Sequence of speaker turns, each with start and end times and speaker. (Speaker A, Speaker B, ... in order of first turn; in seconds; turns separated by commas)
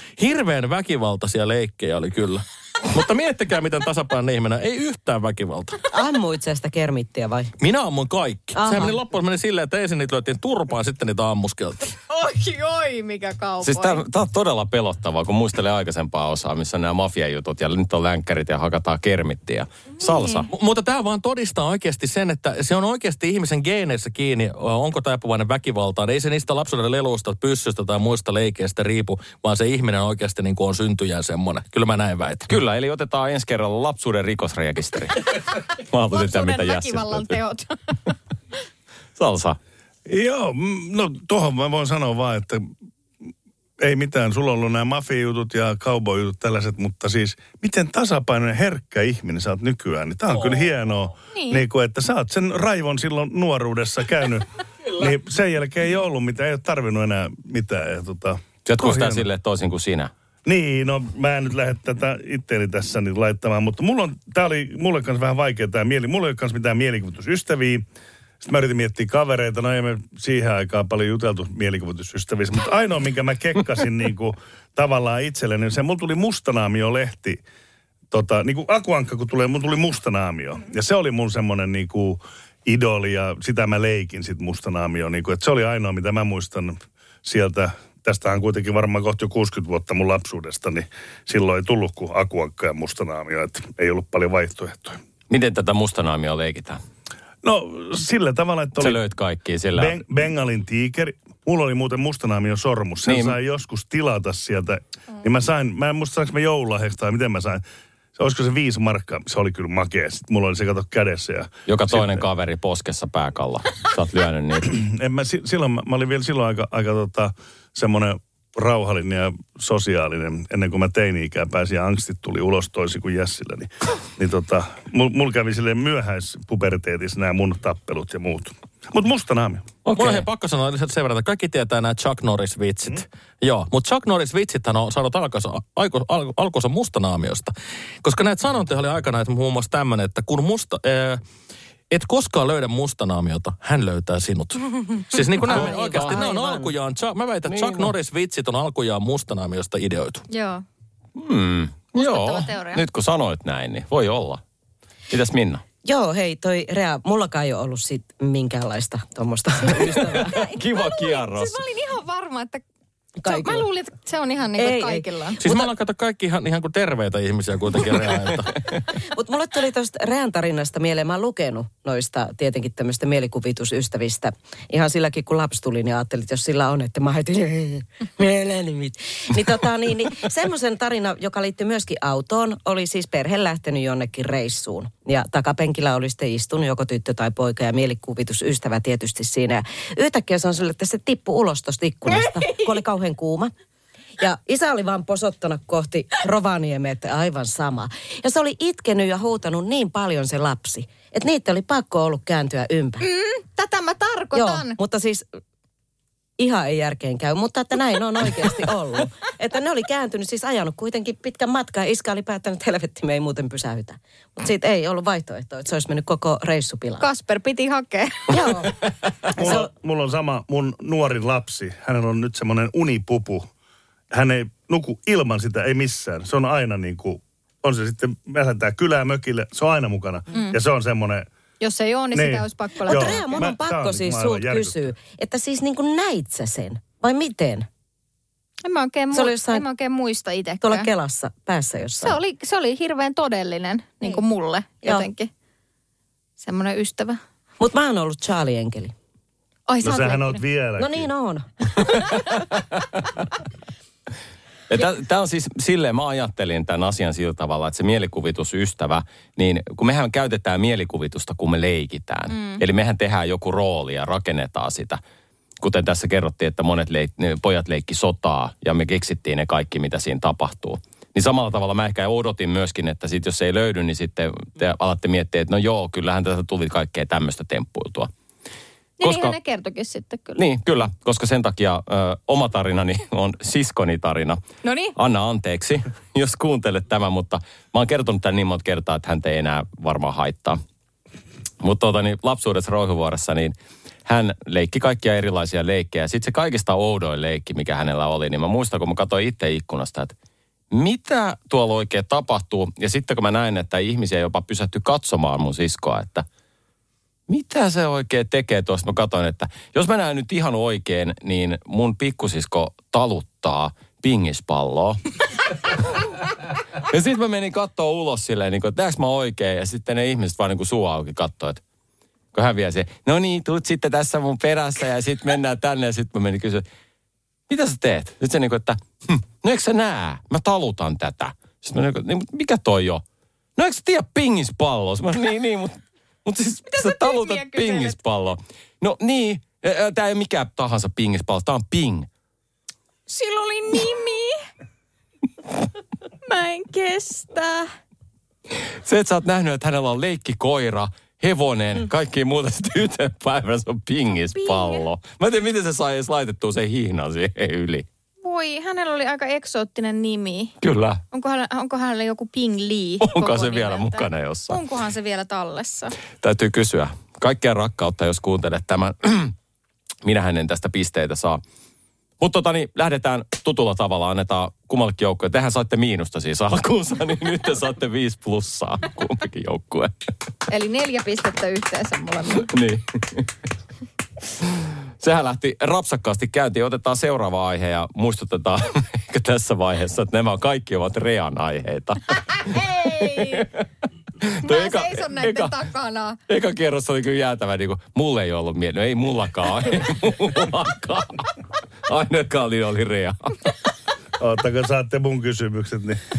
Speaker A: 0.2-5.8, Speaker B: 5.9-7.5, Speaker A: 7.6-11.9, Speaker B: 8.6-9.0, Speaker C: 12.1-14.0, Speaker D: 13.6-20.5, Speaker C: 20.0-20.4, Speaker A: 20.5-32.5, Speaker D: 32.5-37.4, Speaker C: 36.1-38.1, Speaker D: 39.2-39.6, Speaker E: 40.1-42.7, Speaker E: 43.8-59.2, Speaker C: 51.3-51.6, Speaker D: 58.6-60.1, Speaker E: 60.4-67.8, Speaker E: 68.4-77.4, Speaker E: 78.1-95.0, Speaker D: 95.3-96.8, Speaker E: 97.4-99.0, Speaker D: 98.8-100.0, Speaker E: 99.7-107.6, Speaker D: 103.0-103.3, Speaker E: 108.2-112.2, Speaker D: 111.7-114.7, Speaker E: 114.6-129.6, Speaker D: 129.8-130.2, Speaker A: 129.9-141.2, Speaker A: 141.9-150.2, Speaker B: 145.5-146.7, Speaker D: 145.5-146.2, Speaker D: 147.5-147.9, Speaker C: 150.3-150.6, Speaker D: 151.2-154.4, Speaker C: 151.9-152.8, Speaker D: 155.1-155.6, Speaker B: 155.8-160.3, Speaker C: 159.6-162.6, Speaker D: 160.3-161.6, Speaker B: 163.2-163.7, Speaker C: 163.2-165.4, Speaker B: 164.6-165.7, Speaker A: 165.4-168.5, Speaker B: 169.1-193.5, Speaker B: 194.2-203.1, Speaker C: 203.0-204.8, Speaker B: 204.3-205.3, Speaker B: 206.4-217.1, Speaker C: 217.0-218.4, Speaker B: 218.3-219.7, Speaker E: 219.3-223.5, Speaker E: 224.1-231.3, Speaker C: 230.3-230.6, Speaker C: 231.6-233.4, Speaker E: 232.1-234.9, Speaker B: 232.8-237.7, Speaker C: 238.6-240.9, Speaker B: 239.1-239.7, Speaker B: 240.6-242.2, Speaker C: 242.0-245.3, Speaker C: 246.4-247.2, Speaker B: 247.6-248.9, Speaker C: 249.7-250.4, Speaker E: 249.8-251.1, Speaker B: 250.8-251.8, Speaker D: 252.5-252.9, Speaker D: 254.7-265.0, Speaker C: 262.3-262.6, Speaker D: 265.6-278.1, Speaker C: 279.0-280.4, Speaker D: 279.0-279.3, Speaker D: 280.4-284.4, Speaker C: 284.6-284.9, Speaker D: 284.9-290.6, Speaker D: 291.6-293.5, Speaker D: 294.1-300.1, Speaker D: 300.7-306.2, Speaker D: 307.3-315.0, Speaker D: 316.9-321.6, Speaker D: 322.3-326.6, Speaker D: 327.5-333.0, Speaker D: 333.6-342.1, Speaker C: 336.7-337.9, Speaker C: 343.1-344.4, Speaker C: 346.2-347.7, Speaker D: 348.5-357.9, Speaker C: 354.4-354.8, Speaker C: 358.2-360.5, Speaker D: 360.6-361.0, Speaker C: 361.1-365.9, Speaker D: 363.0-364.6, Speaker D: 366.2-369.3, Speaker D: 370.0-371.4, Speaker D: 372.2-379.9, Speaker C: 380.5-382.5, Speaker D: 382.4-383.3, Speaker D: 385.0-393.6, Speaker C: 392.3-393.4, Speaker D: 394.2-395.6, Speaker C: 394.4-396.2, Speaker D: 396.3-401.3, Speaker D: 401.9-403.5, Speaker E: 404.2-406.0